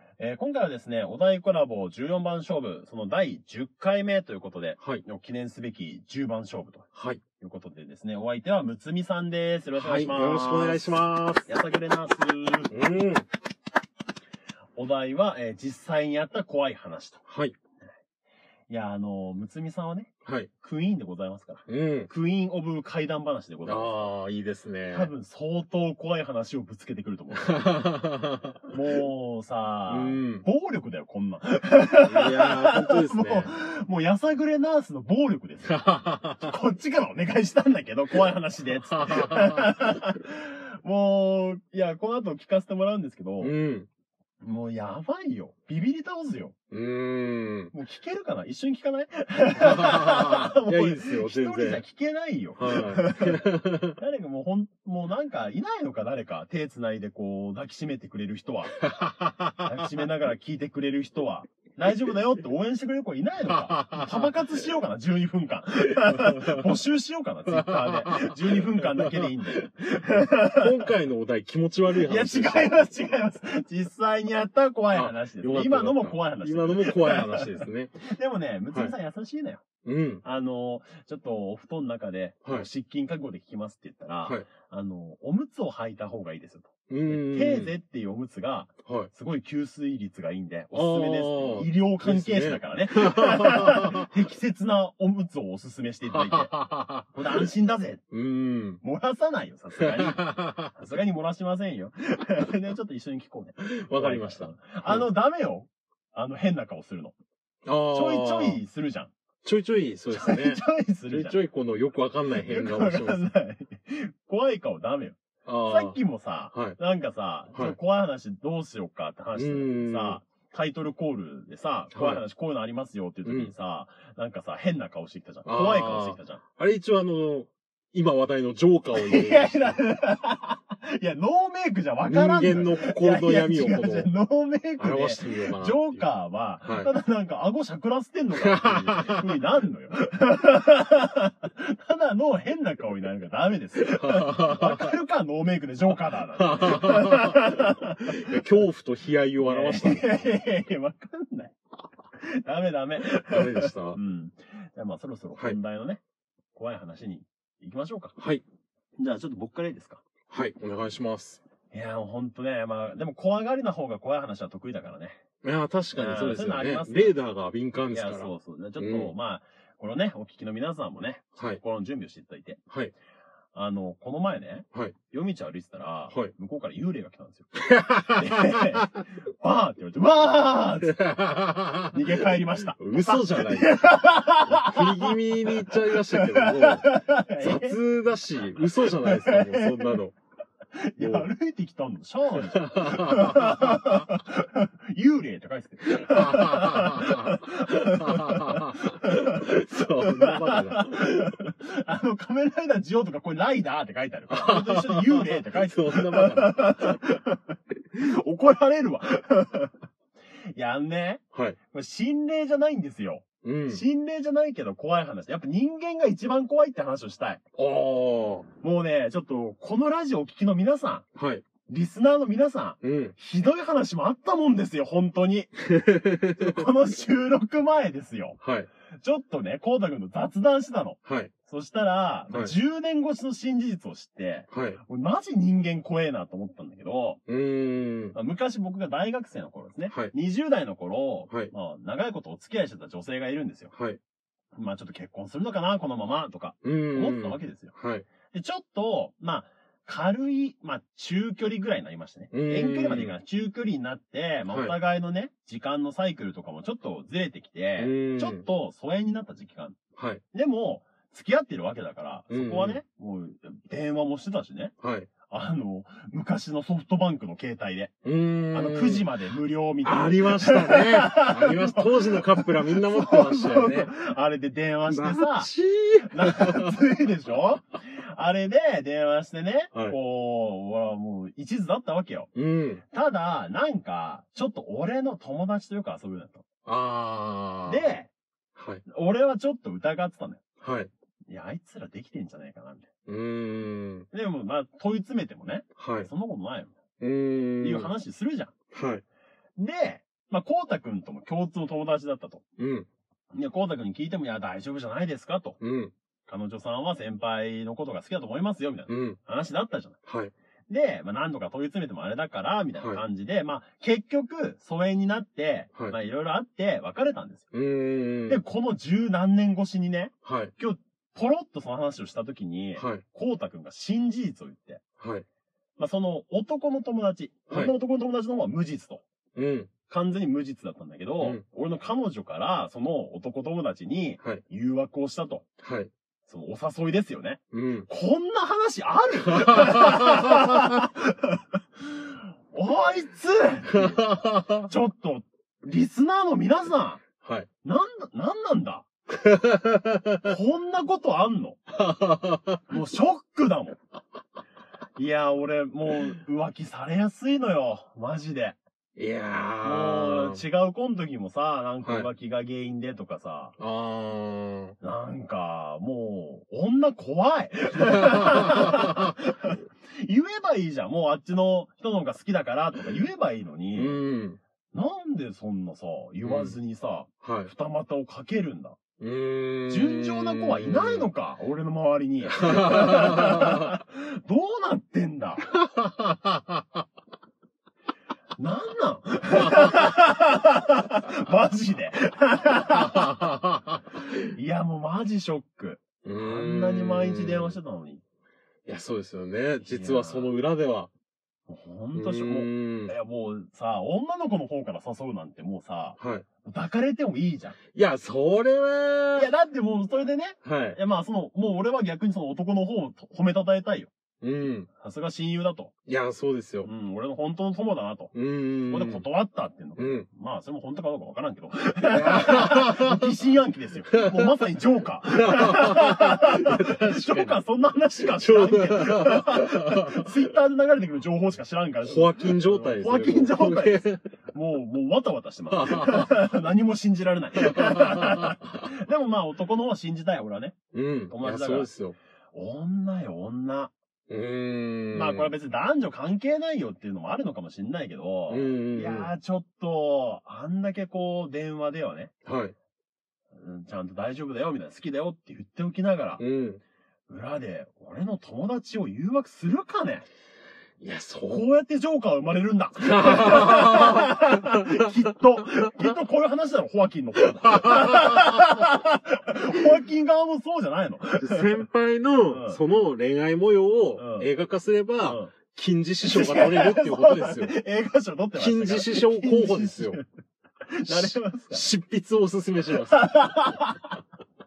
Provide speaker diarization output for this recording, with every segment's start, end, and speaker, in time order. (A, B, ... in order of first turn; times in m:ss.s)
0:00.2-0:06.9 A
0:06.9-0:07.2 B
0:07.4-0:12.7 A
0:09.8-0:11.5 B
0:12.7-0:13.2 B
0:14.8-0:17.2 A
0:17.3-0:17.5 B
0:18.7-0:24.1 A
0:20.2-0:20.5 B
0:21.7-0:22.1 B
0:23.6-0:25.1 B
0:24.9-0:27.7 A
0:27.3-0:28.8 B
0:28.7-0:43.5 A
0:29.9-0:30.4 B
0:32.0-0:33.5 B
0:35.7-0:36.5 B
0:38.9-0:39.7 B
0:43.4-0:43.9 B
0:44.4-0:46.5 A
0:46.7-0:47.7 B
0:47.7-0:58.8 A
0:49.6-0:51.8 B
0:52.6-0:54.0 B
0:58.8-0:59.9 B
0:59.6-1:10.9 A
1:03.5-1:04.3 B
1:06.0-1:06.6 B
1:07.5-1:09.3 B
1:10.5-1:12.8 B
1:11.9-1:19.6 A
1:14.9-1:18.0 B
1:19.8-1:20.2 B
1:20.2-1:36.5 A
1:26.9-1:27.7 B
1:28.8-1:29.1 B
1:30.7-1:34.1 B
1:36.1-1:37.4 B
1:37.1-1:38.0 A
1:38.1-1:38.8 B
1:38.8-1:47.2 A
1:39.8-1:40.7 B
1:43.6-1:45.1 B
1:47.6-1:48.6 B
1:47.9-1:49.1 A
1:49.4-1:53.3 B
1:50.1-1:51.4 A
1:52.4-2:06.4 A
1:55.4-1:56.0 B
1:56.5-1:56.8 B
1:59.3-2:00.2 B
2:01.9-2:02.2 B
2:03.2-2:03.5 B
2:05.4-2:09.8 B
2:08.9-2:28.4 A
2:12.1-2:14.1 B
2:14.8-2:16.0 B
2:16.6-2:16.9 B
2:18.4-2:19.4 B
2:23.8-2:24.9 B
2:26.4-2:30.2 B
2:29.4-2:31.6 A
2:32.2-2:36.0 A
2:33.0-2:34.0 B
2:36.5-2:38.2 A
2:38.2-2:38.4 B
2:39.0-2:40.0 A
2:40.3-2:41.4 B
2:41.7-2:45.2 A
2:45.4-2:49.1 B
2:46.0-2:47.2 A
2:47.9-2:52.6 A
2:53.5-3:01.2 A
2:57.6-2:59.0 B
3:00.8-3:03.8 B
3:01.9-3:07.8 A
3:04.4-3:10.1 B
3:08.6-3:10.0 A
3:10.8-3:29.7 A
3:11.0-3:11.3 B
3:12.4-3:14.0 B
3:15.9-3:21.4 B
3:24.3-3:27.0 B
3:30.5-3:37.4 A
3:33.4-3:33.8 B
3:37.6-3:38.5 B
3:38.6-3:41.0 A
3:41.1-3:41.4 B
3:41.6-3:48.4 A
3:42.8-3:43.1 B
3:45.8-3:46.6 B
3:48.4-3:48.7 B
3:49.0-3:57.2 A
3:51.0-3:51.3 B
3:54.5-3:54.8 B
3:57.3-3:58.2 B
3:58.1-4:03.7 A
4:03.7-4:04.0 B
4:04.5-4:07.7 A
4:06.6-4:08.1 B
4:08.3-4:19.8 A
4:12.3-4:13.1 B
4:14.5-4:14.7 B
4:17.8-4:18.4 B
4:20.0-4:20.2 B
4:20.3-4:24.7 A
4:22.3-4:22.8 B
4:24.8-4:25.1 B
4:25.3-4:27.9 A
4:28.0-4:29.1 B
4:28.5-4:35.5 A
4:29.8-4:33.9 B
4:34.9-4:36.8 B
4:36.1-4:42.3 A
4:42.3-4:42.8 B
4:42.8-4:46.4 A
4:46.6-4:47.8 B
4:47.7-4:48.1 A
4:48.6-4:48.8 B
4:48.8-4:50.4 A
4:50.6-4:50.9 B
4:51.3-4:52.9 A
4:53.1-4:54.1 B
4:54.1-4:56.7 A
4:55.8-4:56.1 B
4:57.0-4:57.9 B
4:57.6-4:58.5 A
4:58.7-4:59.0 B
4:59.6-5:02.4 A
5:02.6-5:02.9 B
5:03.3-5:05.6 A
5:05.6-5:05.9 B
5:06.2-5:10.0 A
5:08.9-5:09.2 B
5:10.1-5:10.3 B
5:10.7-5:17.5 A
5:12.8-5:13.0 B
5:17.5-5:18.4 B
5:18.3-5:24.8 A
5:20.2-5:20.5 B
5:22.8-5:23.0 B
5:25.0-5:25.2 B
5:25.8-5:29.0 A
5:29.4-5:29.7 B
5:29.9-5:35.4 A
5:35.6-5:35.9 B
5:36.2-5:47.0 A
5:37.5-5:37.9 B
5:39.4-5:40.1 B
5:43.7-5:44.6 B
5:47.2-5:47.5 B
5:47.6-5:48.9 A
5:49.2-5:50.2 B
5:50.2-5:51.6 A
5:51.8-5:52.6 B
5:52.7-5:53.8 A
5:55.0-5:58.6 A
5:59.0-6:00.4 B
5:59.6-6:03.6 A
6:01.8-6:02.1 B
6:03.6-6:04.8 B
6:04.8-6:14.0 A
6:08.2-6:08.8 B
6:13.7-6:14.4 B
6:14.7-6:18.8 A
6:16.2-6:16.6 B
6:17.2-6:17.5 B
6:19.0-6:21.1 B
6:19.7-6:25.5 A
6:22.4-6:23.7 B
6:25.7-6:26.0 B
6:28.4-6:33.4 A
6:32.8-6:33.4 B
6:34.2-6:38.0 A
6:36.0-6:37.6 B
6:38.6-6:40.9 B
6:39.6-6:40.3 A
6:41.5-6:47.6 A
6:41.9-6:42.9 B
6:46.0-6:46.2 B
6:47.7-6:49.3 B
6:49.2-6:53.9 A
6:50.4-6:50.8 B
6:54.2-6:54.7 B
6:54.8-6:55.7 A
6:55.8-6:56.7 B
6:56.6-7:20.6 A
6:58.1-6:59.0 B
6:59.8-7:00.0 B
7:01.8-7:03.1 B
7:04.0-7:04.4 B
7:05.1-7:07.4 B
7:08.2-7:10.1 B
7:11.8-7:14.1 B
7:15.5-7:16.1 B
7:17.4-7:18.4 B
7:20.7-7:22.0 B
7:21.1-7:21.7 A
7:22.3-7:23.7 A
7:24.1-7:25.3 B
7:24.9-7:32.1 A
7:28.3-7:29.1 B
7:32.2-7:32.5 B
7:33.3-7:36.2 A
7:36.2-7:36.6 B
7:37.1-7:40.0 A
7:40.8-7:41.4 B
7:41.3-7:51.6 A
7:42.8-7:45.0 B
7:45.6-7:46.0 B
7:47.3-7:48.4 B
7:51.2-7:57.5 B
7:52.3-7:52.6 A
7:54.0-7:54.3 A
7:55.0-7:55.3 A
7:56.1-8:00.0 A
7:58.3-8:00.0 B
8:00.7-8:01.7 A
8:00.8-8:03.1 B
8:02.8-8:03.9 A